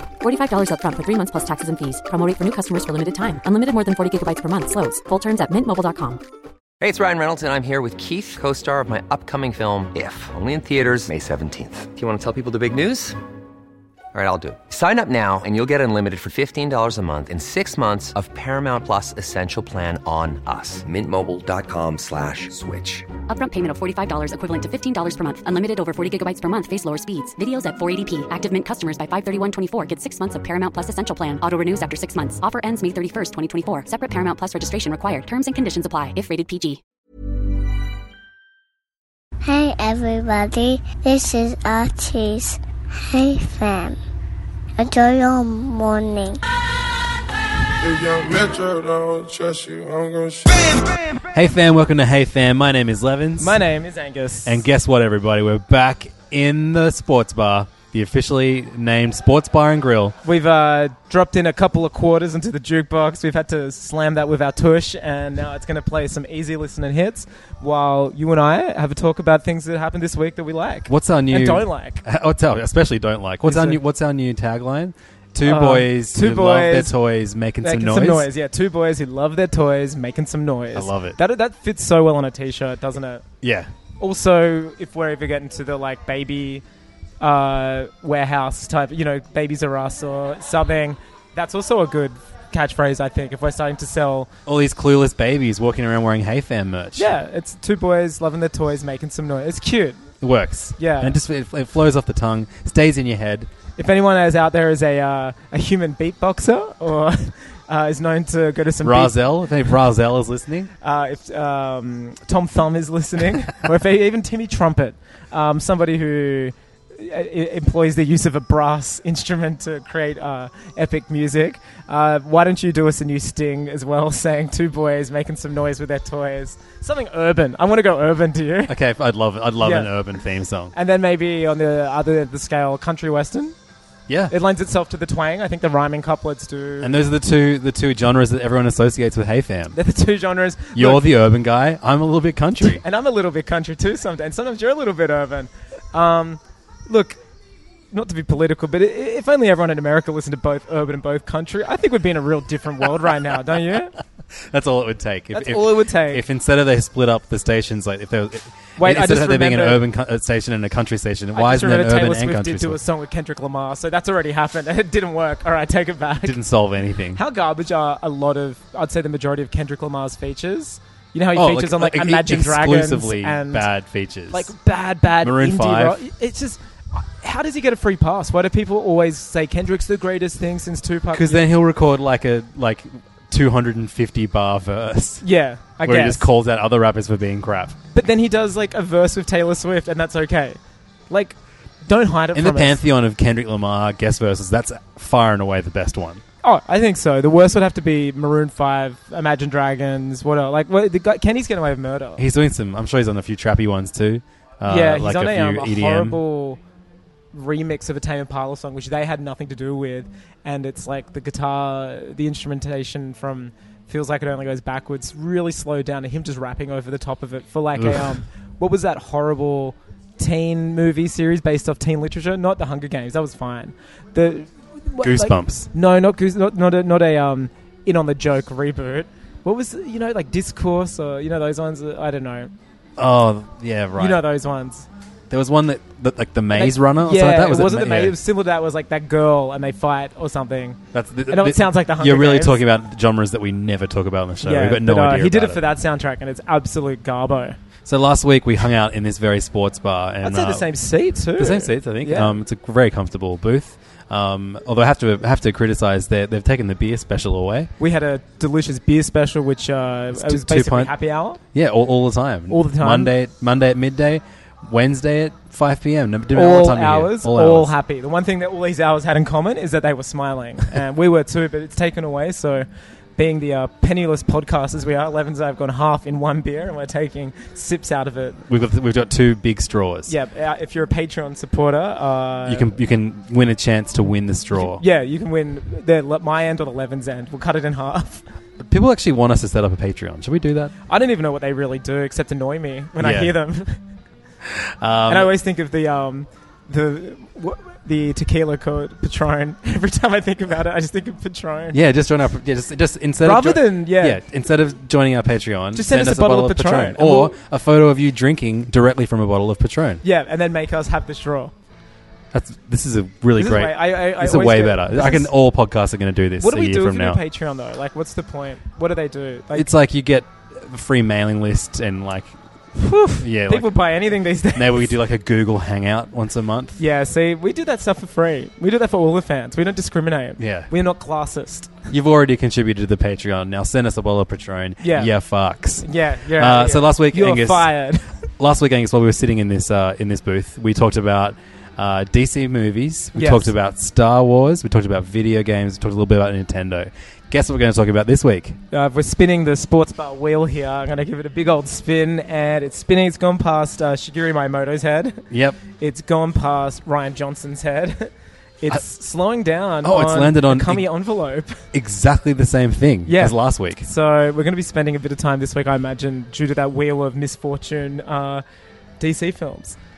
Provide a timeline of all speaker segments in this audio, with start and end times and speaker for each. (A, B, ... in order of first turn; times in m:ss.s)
0:00.2-0:06.2 A
0:06.8-0:13.2 B
0:14.1-0:23.1 B
0:23.3-0:36.8 A
0:39.4-0:44.0 C
0:44.8-0:46.4 C
0:47.8-0:51.3 D
0:51.3-0:53.6 E
0:53.4-0:54.6 F
0:54.4-1:00.2 E
1:00.2-1:12.0 F
1:10.9-1:18.3 E
1:13.4-1:13.8 F
1:15.4-1:16.9 F
1:17.6-1:23.2 F
1:20.8-1:21.2 E
1:23.4-1:23.7 E
1:24.0-1:26.6 F
1:27.2-1:34.3 F
1:34.5-1:37.1 E
1:37.0-1:40.0 F
1:40.2-1:43.5 E
1:40.8-1:41.2 F
1:43.8-1:49.7 F
1:48.8-1:50.7 E
1:50.8-2:08.8 F
2:08.7-2:10.7 E
2:09.6-2:09.9 F
2:10.7-2:13.6 F
2:14.1-2:14.3 E
2:14.3-2:17.0 F
2:16.8-2:19.8 E
2:19.7-2:21.1 F
2:20.8-2:22.8 E
2:22.6-2:27.2 F
2:27.9-2:33.9 F
2:34.4-2:42.8 E
2:35.3-2:36.2 F
2:38.8-2:39.8 F
2:41.3-2:46.4 F
2:46.2-2:47.2 E
2:47.1-2:53.7 F
2:51.3-2:54.5 E
2:54.3-3:01.4 F
2:55.2-2:56.0 E
3:01.1-3:05.2 E
3:05.2-3:06.3 F
3:05.8-3:07.8 E
3:07.9-3:10.6 F
3:11.1-3:12.8 F
3:12.3-3:16.2 E
3:16.4-3:22.2 F
3:22.2-3:26.2 E
3:24.7-3:26.6 F
3:27.3-3:52.5 F
3:37.8-3:38.2 E
3:45.0-3:45.7 E
3:53.0-3:54.3 E
3:54.0-3:54.9 F
3:55.3-3:58.2 E
3:56.5-4:02.6 F
4:00.9-4:05.6 E
4:04.4-4:07.6 F
4:07.9-4:10.7 E
4:10.2-4:12.4 F
4:11.4-4:17.7 E
4:17.8-4:21.4 F
4:20.1-4:20.9 E
4:21.5-4:27.7 E
4:22.5-4:23.1 F
4:26.3-4:38.4 F
4:38.5-4:40.1 E
4:40.1-4:42.8 F
4:42.5-4:44.8 E
4:44.5-4:48.2 F
4:48.6-4:50.7 E
4:50.9-4:53.8 F
4:53.0-4:53.4 E
4:54.5-4:55.3 E
4:55.1-5:01.8 F
5:01.7-5:10.0 E
5:03.2-5:04.2 F
5:05.7-5:07.4 F
5:10.0-5:11.5 F
5:12.3-5:17.2 E
5:13.4-5:15.3 F
5:16.4-5:19.7 F
5:19.5-5:22.3 E
5:22.8-5:24.9 F
5:23.2-5:26.8 E
5:26.8-5:31.8 F
5:30.4-5:30.7 E
5:31.9-5:37.7 E
5:34.8-5:35.1 F
5:35.8-5:38.2 F
5:38.4-5:48.6 E
5:43.2-5:43.5 F
5:48.7-5:55.3 F
5:55.3-5:55.6 E
5:55.8-6:01.6 F
5:59.8-6:00.9 E
6:01.7-6:03.9 E
6:03.1-6:08.4 F
6:09.0-6:09.8 F